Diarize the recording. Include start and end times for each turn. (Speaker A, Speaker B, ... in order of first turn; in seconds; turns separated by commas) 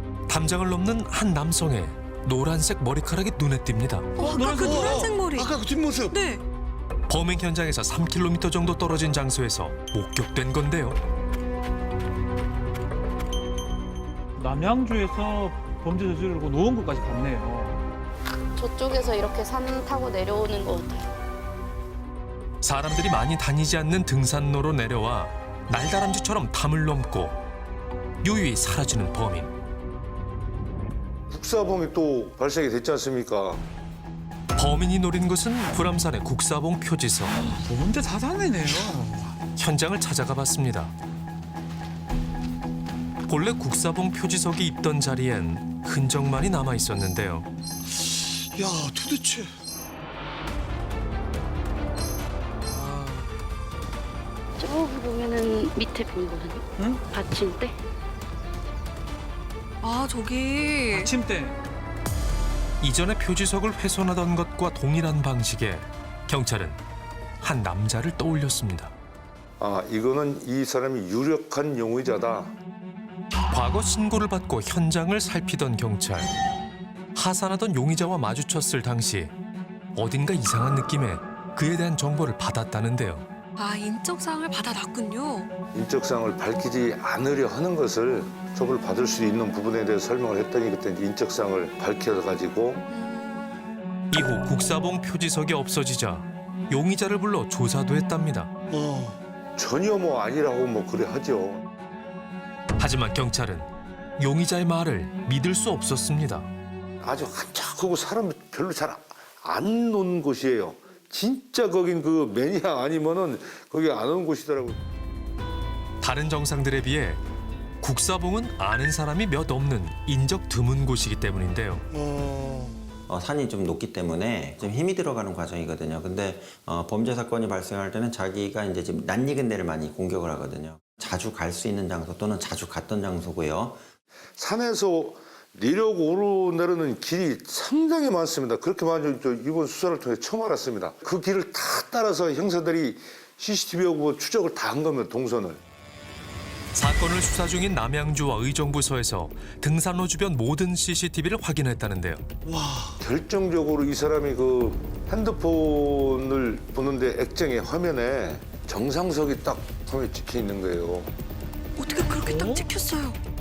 Speaker A: 0.3-4.1, Speaker B: 4.2-6.4, Speaker C: 4.2-6.2, Speaker A: 7.1-11.0, Speaker D: 14.4-17.8, Speaker E: 18.5-21.1, Speaker A: 22.6-27.4, Speaker A: 28.2-29.5, Speaker F: 31.3-33.6, Speaker A: 34.5-37.4, Speaker D: 37.6-39.3, Speaker A: 39.6-40.9, Speaker A: 43.3-47.5, Speaker C: 47.9-49.5, Speaker D: 52.7-53.3, Speaker E: 54.6-57.7, Speaker B: 59.8-61.1, Speaker D: 61.0-61.5, Speaker A: 62.8-66.8, Speaker A: 67.4-68.9, Speaker F: 69.6-72.5, Speaker A: 73.5-76.3, Speaker A: 77.1-79.3, Speaker A: 79.9-83.3, Speaker B: 83.6-85.5, Speaker F: 85.7-92.9, Speaker B: 92.9-93.5, Speaker A: 94.1-98.5, Speaker C: 98.7-99.2, Speaker F: 99.5-101.6, Speaker A: 102.8-106.5, Speaker F: 107.0-114.8, Speaker A: 116.0-117.2, Speaker A: 117.8-121.8, Speaker C: 121.9-122.8, Speaker G: 123.1-133.8, Speaker F: 134.4-145.6, Speaker A: 146.7-152.2, Speaker C: 152.4-152.9, Speaker F: 153.0-161.1, Speaker B: 161.8-163.2, Speaker D: 162.2-162.7